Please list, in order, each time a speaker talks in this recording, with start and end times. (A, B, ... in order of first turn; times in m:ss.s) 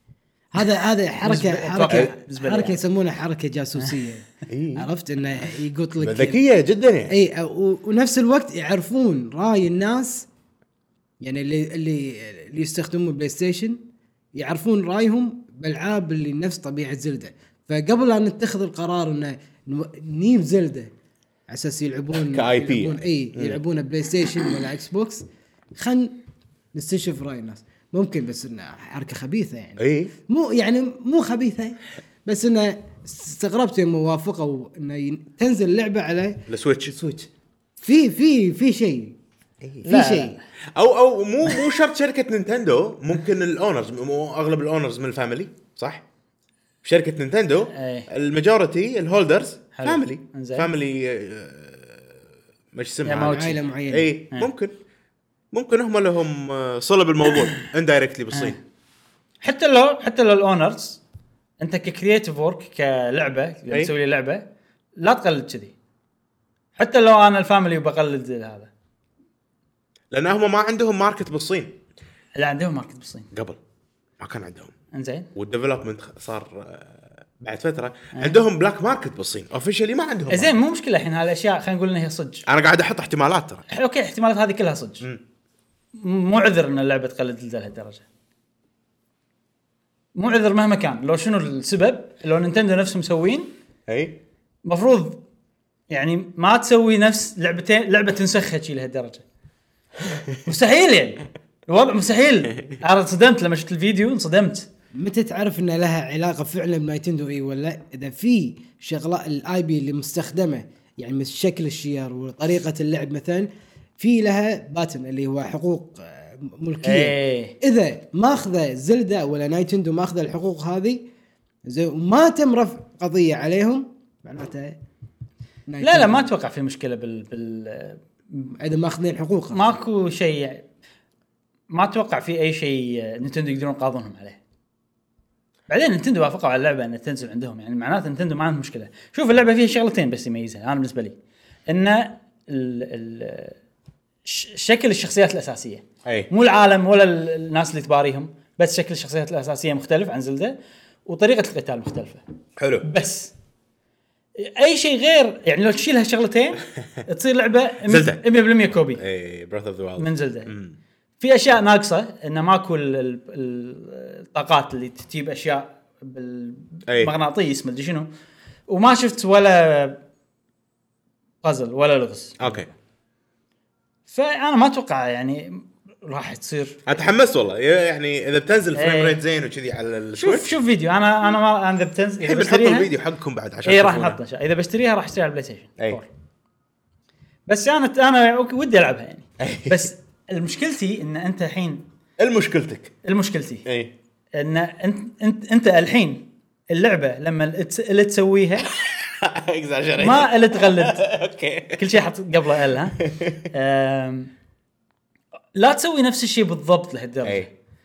0:00.5-0:06.4 A
0:01.2-0:02.8 B
0:04.5-0:04.9 C
0:06.0-0:07.1 C
0:07.1-0:10.3 A
0:11.2-0:13.8 A
0:14.4-0:20.9 A
0:21.5-0:25.2 A
0:22.3-0:23.6 C
0:25.8-0:26.1 A
0:26.7-0:37.3 A
0:29.8-0:30.1 C
0:36.5-0:36.9 C
0:37.8-0:39.2 A
0:39.8-0:40.4 A
0:39.9-0:40.4 B
0:40.8-0:46.0 C
0:46.8-0:52.1 C
0:47.7-0:48.1 B
0:49.8-0:50.7 B
0:52.7-0:54.7 C
0:53.0-0:53.6 B
0:53.2-0:54.1 A
0:55.5-0:58.6 C
0:58.3-0:58.6 B
0:59.4-1:01.0 B
1:01.6-1:04.4 B
1:05.0-1:05.7 B
1:06.8-1:08.7 B
1:10.1-1:11.8 C
1:12.4-1:13.3 B
1:13.3-1:13.6 C
1:14.2-1:14.7 C
1:14.9-1:15.3 B
1:15.3-1:20.6 C
1:20.3-1:22.4 B
1:22.5-1:23.6 C
1:23.7-1:25.0 B
1:26.0-1:28.0 B
1:30.1-1:33.5 B
1:33.9-1:34.2 C
1:34.6-1:35.2 B
1:35.9-1:39.2 B
1:40.4-1:44.7 B
1:44.9-2:01.0 A
1:56.8-1:57.6 B
2:01.7-2:04.8 A
2:05.7-2:06.3 A
2:05.8-2:08.6 B
2:08.6-2:09.8 A
2:09.5-2:10.6 B
2:11.7-2:14.4 B
2:15.7-2:21.2 B
2:21.7-2:23.6 B
2:24.2-2:30.6 B
2:31.1-2:32.2 B
2:32.6-2:32.9 C
2:32.8-2:33.3 B
2:34.4-2:39.0 B
2:37.9-2:38.2 C
2:39.0-2:40.8 C
2:40.0-2:40.5 B
2:41.2-2:48.1 B
2:46.9-2:47.1 C
2:48.7-2:50.0 B
2:51.4-2:52.7 B
2:52.4-2:52.7 C
2:54.1-2:56.8 B
2:56.9-3:00.6 C
2:58.8-2:59.2 B
3:00.2-3:02.9 B
3:02.2-3:04.2 C
3:03.6-3:06.1 B
3:07.5-3:11.9 B
3:09.4-3:09.9 C
3:12.2-3:12.9 C
3:13.0-3:13.6 B
3:13.6-3:13.9 C
3:14.4-3:18.7 B
3:18.7-3:21.8 C
3:20.0-3:21.0 B
3:21.7-3:24.3 B
3:23.0-3:23.5 C
3:25.6-3:27.5 B